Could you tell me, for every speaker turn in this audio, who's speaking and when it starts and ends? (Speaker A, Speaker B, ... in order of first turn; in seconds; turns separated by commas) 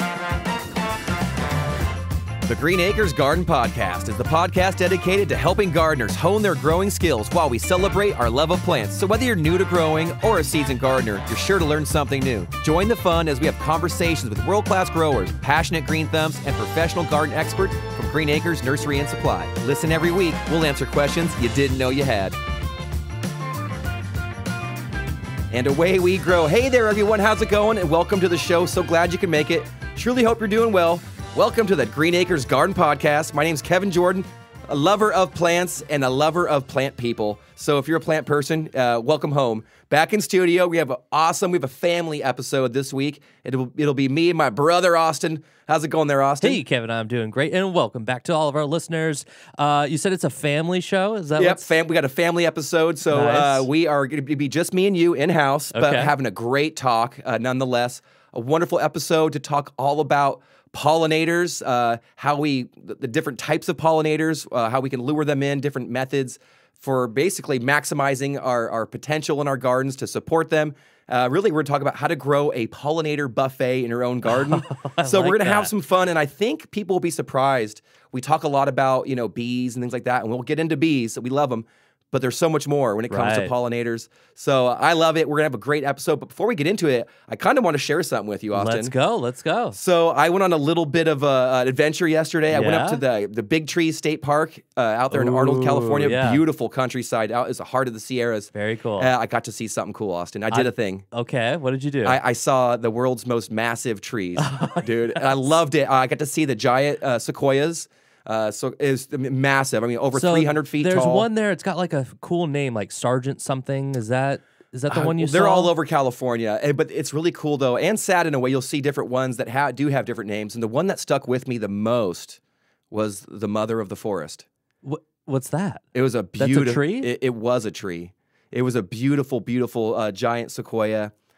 Speaker A: 2.4-22.4, Speaker A: 25.5-46.6, Speaker B: 46.4-51.7, Speaker A: 51.4-88.9, Speaker B: 53.1-53.7, Speaker B: 55.7-56.1, Speaker B: 74.3-75.7, Speaker B: 83.1-83.5, Speaker B: 88.5-89.8, Speaker A: 89.7-101.0, Speaker B: 92.5-93.0, Speaker B: 95.1-96.4, Speaker B: 98.5-99.1, Speaker B: 100.5-102.2, Speaker A: 102.0-111.3, Speaker B: 104.4-105.3, Speaker B: 110.1-115.7, Speaker A: 114.9-122.4, Speaker A: 122.9-124.5, Speaker B: 124.8-125.8, Speaker A: 125.9-131.1, Speaker B: 126.4-127.1